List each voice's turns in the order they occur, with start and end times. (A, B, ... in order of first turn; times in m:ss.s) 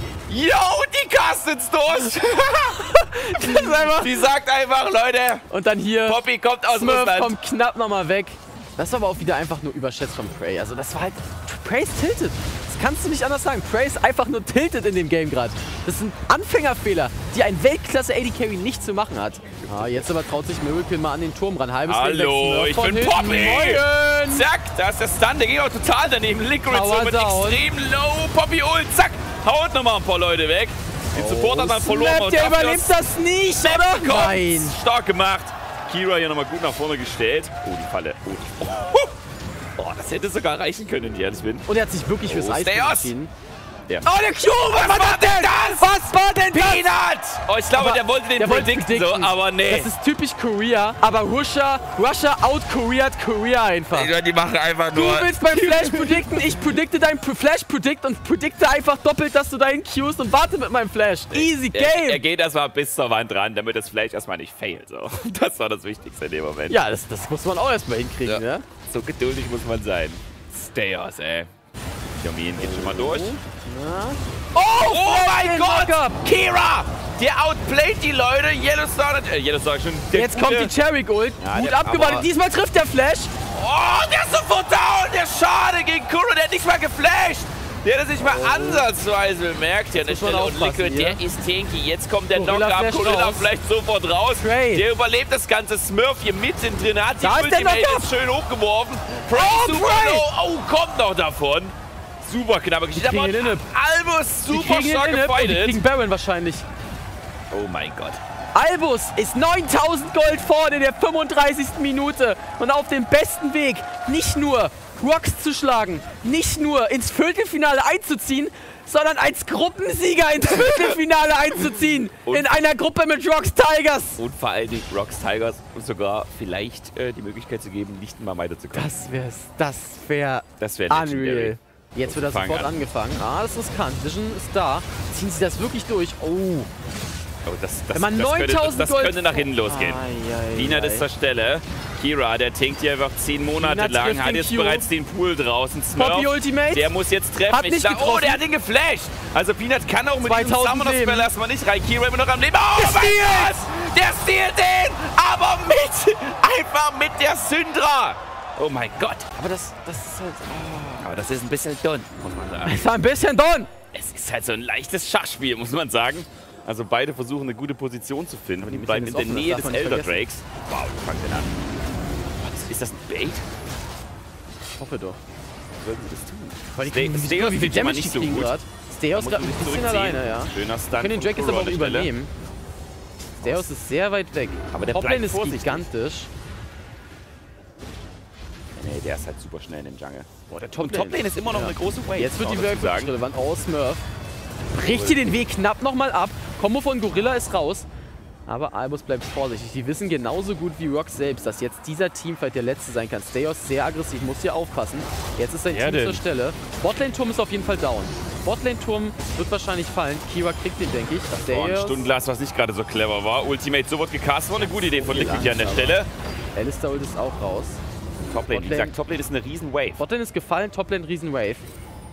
0:00.3-0:05.5 A
0:02.8-0:04.3 B
0:05.5-0:06.2 B
0:06.0-0:07.4 A
0:06.7-0:24.5 B
0:19.6-0:20.1 A
0:21.9-0:33.0 A
0:26.7-0:27.6 B
0:31.1-0:34.8 B
0:33.6-0:39.1 A
0:39.8-0:41.7 A
0:41.7-0:43.3 B
0:42.2-0:43.1 A
0:44.0-0:46.9 B
0:44.6-0:45.9 A
0:46.5-0:49.9 A
0:47.7-0:54.1 B
0:53.9-0:56.6 A
0:54.9-1:02.2 B
1:01.3-1:06.8 A
1:06.7-1:08.7 B
1:08.2-1:11.5 A
1:12.2-1:13.4 A
1:12.6-1:16.2 B
1:14.7-1:20.7 A
1:20.1-1:23.3 B
1:21.4-1:22.3 A
1:23.5-1:45.8 A
1:28.2-1:28.9 B
1:29.9-1:31.2 B
1:32.3-1:33.5 B
1:34.3-1:34.9 B
1:37.2-1:38.1 B
1:39.3-1:40.3 B
1:42.9-1:43.7 B
1:44.5-1:46.7 B
1:47.5-1:48.2 A
1:48.5-2:04.2 B
2:00.5-2:01.0 A
2:02.3-2:02.6 A
2:04.2-2:08.9 A
2:08.7-2:16.7 B
2:10.6-2:12.7 A
2:17.5-2:39.3 A
2:17.9-2:21.1 B
2:23.6-2:24.9 B
2:25.9-2:26.9 B
2:27.5-2:28.4 B
2:30.2-2:31.3 B
2:32.8-2:33.6 B
2:39.4-2:41.0 B
2:40.8-2:42.9 A
2:42.6-2:43.7 B
2:43.9-2:51.7 A
2:48.6-2:50.2 B
2:52.4-2:53.5 A
2:54.8-2:55.2 B
2:55.8-2:58.6 A
2:56.8-3:02.3 B
2:59.1-3:02.1 A
3:03.4-3:06.3 B
3:03.4-3:03.7 A
3:04.7-3:05.9 A
3:08.8-3:13.2 A
3:10.5-3:14.0 B
3:14.7-3:17.9 B
3:14.8-3:15.3 A
3:18.5-3:32.1 B
3:25.7-3:26.2 A
3:31.3-3:36.1 A
3:34.6-3:36.0 B
3:36.6-3:37.8 B
3:38.3-3:40.0 A
3:38.5-3:39.0 B
3:40.0-3:41.7 B